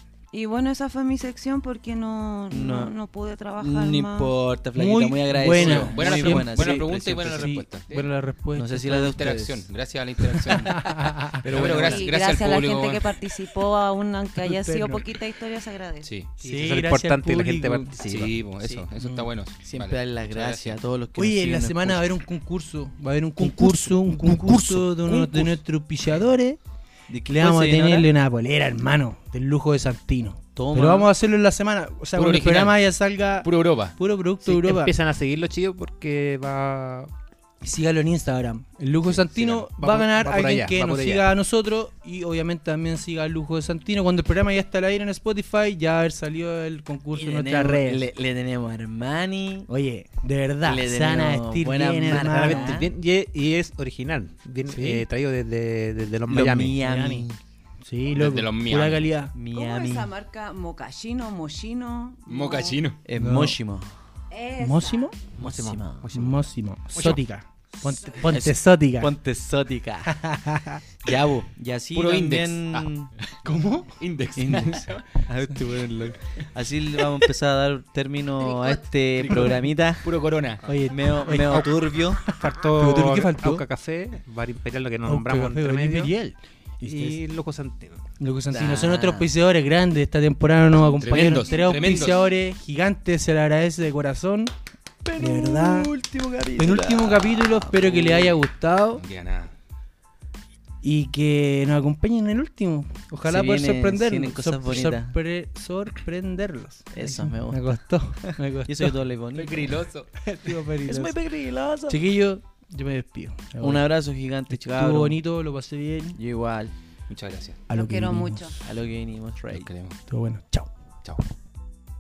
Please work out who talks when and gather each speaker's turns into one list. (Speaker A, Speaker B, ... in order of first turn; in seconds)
Speaker A: 0.3-4.3, 11.6-16.1, 59.5-62.8, 64.3-65.1, 117.7-118.6
Speaker B: 2.5-2.9, 3.6-7.5, 8.6-9.7, 11.4-12.1, 18.6-18.9, 19.6-22.1, 23.4-25.6, 27.1-28.1, 30.6-31.1, 47.1-49.7, 50.6-52.9, 56.3-57.4, 59.4-60.1, 63.0-63.9, 65.3-66.2, 67.9-70.2, 71.0-73.1, 74.3-80.1, 80.9-82.2, 88.5-89.3, 95.0-98.4, 103.2-105.2, 106.9-107.7, 108.2-109.8, 110.8-112.0, 113.6-115.2, 116.2-116.7, 118.6-119.7
Speaker C: 4.8-9.1, 10.5-11.4, 14.4-15.1, 16.4-17.9, 19.0-19.3, 21.2-26.6, 27.3-34.9, 37.6-48.1, 49.7-52.8, 54.7-55.0, 56.6-57.2, 57.8-59.4, 63.2-63.6, 64.6-65.2, 66.1-69.1, 70.1-70.8, 73.4-74.0, 79.2-79.6, 80.7-83.6, 85.0-87.2, 88.2-94.5, 95.2-95.9, 96.6-99.0, 100.8-109.0, 110.2-111.2, 111.9-113.9, 114.5-116.2, 117.7-118.5, 120.1-120.7
Speaker D: 5.5-8.1, 8.9-13.1, 16.0-16.3, 18.0-20.8, 32.1-32.8, 33.4-34.0, 58.1-59.1, 62.3-63.0, 71.9-72.9, 74.0-75.0, 80.0-80.6, 91.0-92.2, 99.0-99.5, 109.3-110.1, 117.1-117.6, 119.5-120.0
Speaker E: 16.4-18.3, 34.5-37.1, 39.2-41.3, 52.1-56.8, 65.4-66.4, 66.9-67.2, 82.4-86.1, 86.8-88.0